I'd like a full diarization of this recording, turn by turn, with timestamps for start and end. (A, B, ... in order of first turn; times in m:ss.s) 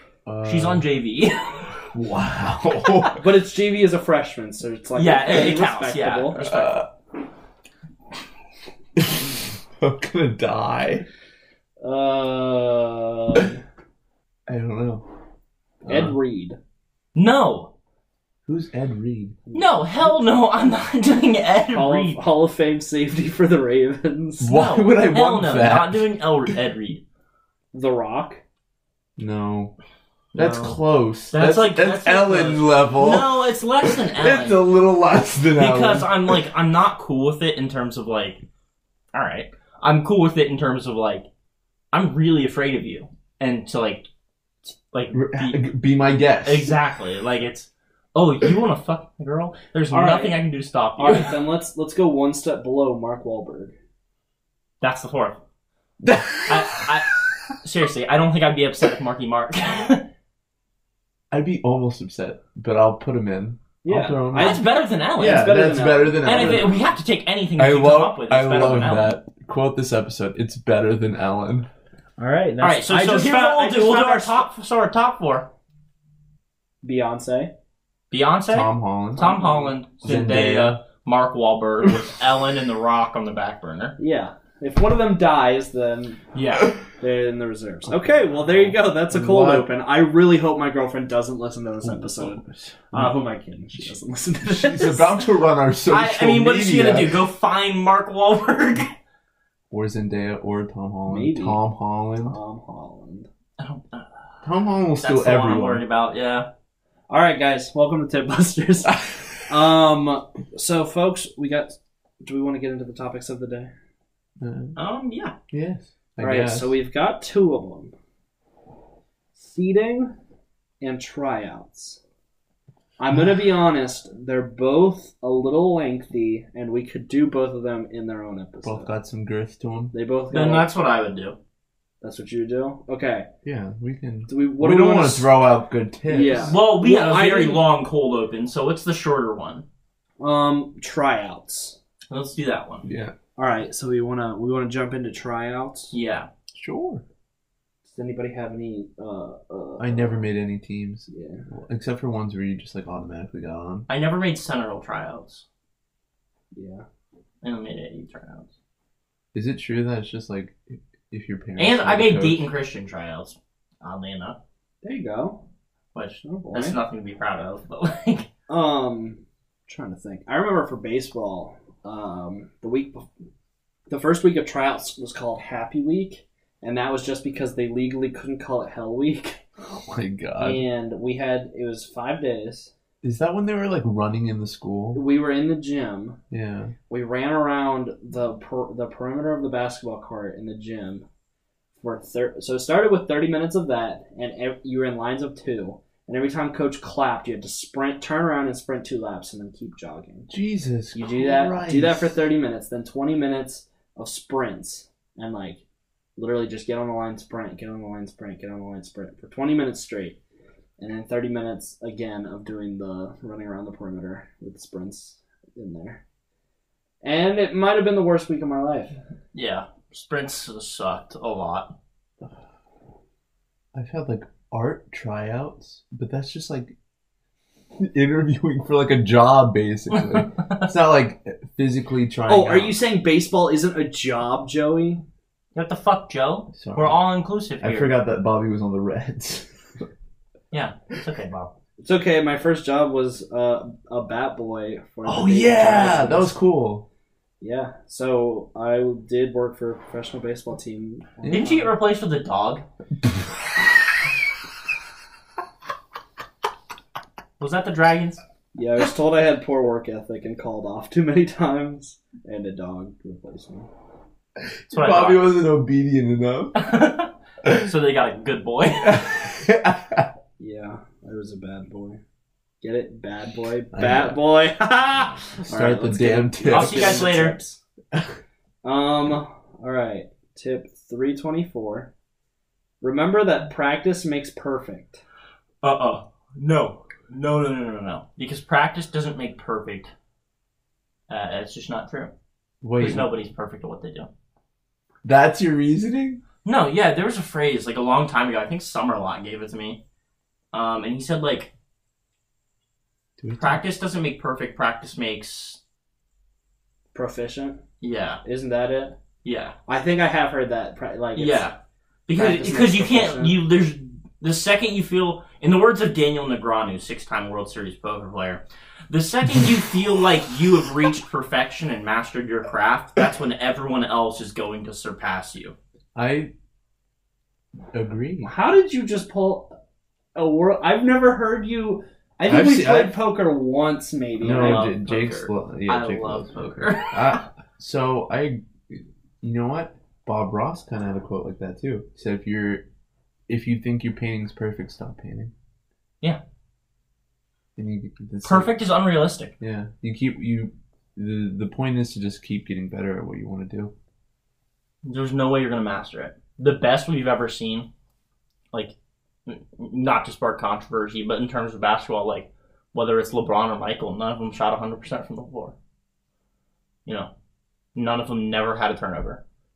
0:00.3-0:00.8 A
0:00.4-0:01.8 B
0:01.9-0:03.2 A
0:03.2-0:06.4 C
0:05.0-0:06.8 B
0:06.5-0:06.9 A
0:09.0-0:11.1 A
0:11.8-0:13.6 C
0:14.5-0:15.0 A
0:15.8-0:16.2 A
0:15.9-0:16.6 C
0:17.2-0:17.7 B
0:18.5-0:19.4 A
0:19.5-0:20.2 C
0:19.5-0:22.2 B
0:21.7-0:24.5 C
0:24.4-0:26.1 A
0:24.5-0:27.0 B
0:27.7-0:28.4 C
0:29.2-0:29.7 A
0:30.3-0:30.8 B
0:30.4-0:36.4 A
0:31.3-0:34.6 B
0:35.6-0:38.4 B
0:39.1-0:41.3 B
0:41.9-0:44.1 B
0:44.9-0:45.6 B
0:45.1-0:46.8 A
0:46.4-0:51.4 B
0:49.9-0:50.4 C
0:51.0-0:53.7 C
0:54.8-0:55.4 B
0:56.0-0:56.9 A
0:56.5-1:00.0 B
1:01.3-1:06.8 A
1:03.8-1:06.9 C
1:04.3-1:05.5 B
1:06.2-1:09.1 B
1:07.6-1:11.7 A
1:12.2-1:14.5 C
1:12.6-1:15.5 B
1:16.8-1:17.5 C
1:18.1-1:24.0 B
1:18.5-1:19.3 A
1:19.2-1:19.7 C
1:20.0-1:20.8 A
1:24.0-1:26.2 C
1:26.3-1:26.8 B
1:27.0-1:35.2 C
1:27.9-1:29.7 A
1:31.8-1:33.2 A
1:33.7-1:37.2 A
1:35.9-1:38.9 B
1:39.7-1:42.4 A
1:41.1-1:41.6 C
1:42.2-1:43.3 C
1:43.6-1:44.1 B
1:44.4-1:45.8 A
1:45.0-1:46.5 B
1:47.1-1:53.7 C
1:54.4-1:54.8 A
1:54.8-1:55.3 B
1:55.5-1:56.8 A
1:56.2-1:57.9 C
1:59.4-2:00.1 C
2:00.8-2:02.0 C
2:03.0-2:08.9 C
2:08.6-2:09.9 A
2:09.9-2:10.7 C
2:10.3-2:11.4 B
2:12.0-2:13.3 C
2:13.4-2:16.6 A
2:14.3-2:15.3 C
2:16.1-2:17.7 C
2:16.4-2:19.6 B
2:20.2-2:21.8 C
2:22.1-2:22.9 B
2:22.8-2:23.1 A
2:23.4-2:25.9 C
2:25.9-2:26.3 B
2:26.5-2:27.0 A
2:27.8-2:30.2 C
2:29.8-2:33.9 A
2:31.1-2:31.4 C
2:33.9-2:35.4 B
2:36.5-2:36.8 C
2:37.4-2:38.5 B
2:39.3-2:42.5 A
2:41.6-2:44.4 B
2:44.8-2:45.4 C
2:45.9-2:48.3 B
2:46.2-2:46.8 C
2:48.5-2:53.1 C
2:53.9-2:59.4 C
2:59.7-3:00.6 A
3:00.4-3:02.7 C
3:03.0-3:05.0 A
3:04.9-3:06.2 C
3:06.3-3:06.7 A
3:06.9-3:11.0 C
3:11.8-3:20.3 C
3:20.3-3:22.2 A
3:20.9-3:25.6 C
3:26.2-3:30.2 C
3:30.8-3:36.0 C
3:37.0-3:38.9 C
3:39.3-3:41.7 B
3:43.7-3:46.7 A
3:47.8-3:52.8 A
3:49.9-3:50.7 B
3:52.3-3:55.0 C
3:55.6-3:58.0 B
3:56.5-3:57.0 A
3:57.6-3:59.8 A
4:00.5-4:01.5 B
4:01.8-4:06.3 C
4:05.0-4:06.9 A
4:07.4-4:11.7 C
4:11.3-4:12.6 B
4:13.0-4:13.5 A
4:17.4-4:18.2 B
4:18.6-4:23.7 C
4:24.4-4:26.6 A
4:24.7-4:25.3 B
4:26.6-4:29.0 B
4:27.4-4:27.7 A
4:28.7-4:30.1 A
4:30.4-4:32.0 C
4:32.6-4:37.6 C
4:33.7-4:34.2 A
4:35.4-4:37.1 A
4:36.5-4:37.4 B
4:38.6-4:41.9 C
4:42.8-4:45.0 C
4:45.6-4:49.9 B
4:51.1-4:52.1 B
4:52.6-4:53.1 A
4:52.8-4:54.1 B
4:55.0-4:56.2 A
4:56.4-4:59.8 B
5:00.5-5:01.5 B
5:03.2-5:03.6 A
5:03.4-5:05.6 B
5:06.9-5:07.6 C
5:07.8-5:08.2 B
5:08.2-5:09.0 C
5:09.2-5:09.6 B
5:09.7-5:11.4 C
5:11.2-5:11.5 B
5:12.1-5:25.6 B
5:12.2-5:13.4 C
5:26.0-5:26.3 A
5:27.7-5:28.3 A
5:28.2-5:29.5 C
5:30.2-5:34.7 C
5:32.3-5:33.0 A
5:34.2-5:42.6 A
5:34.3-5:37.3 B
5:43.3-5:45.3 A
5:47.6-5:48.5 A
5:48.2-5:49.3 B
5:49.4-5:53.7 A
5:54.8-5:57.7 B
5:59.3-6:05.6 B
6:06.9-6:07.1 B
6:07.8-6:09.2 B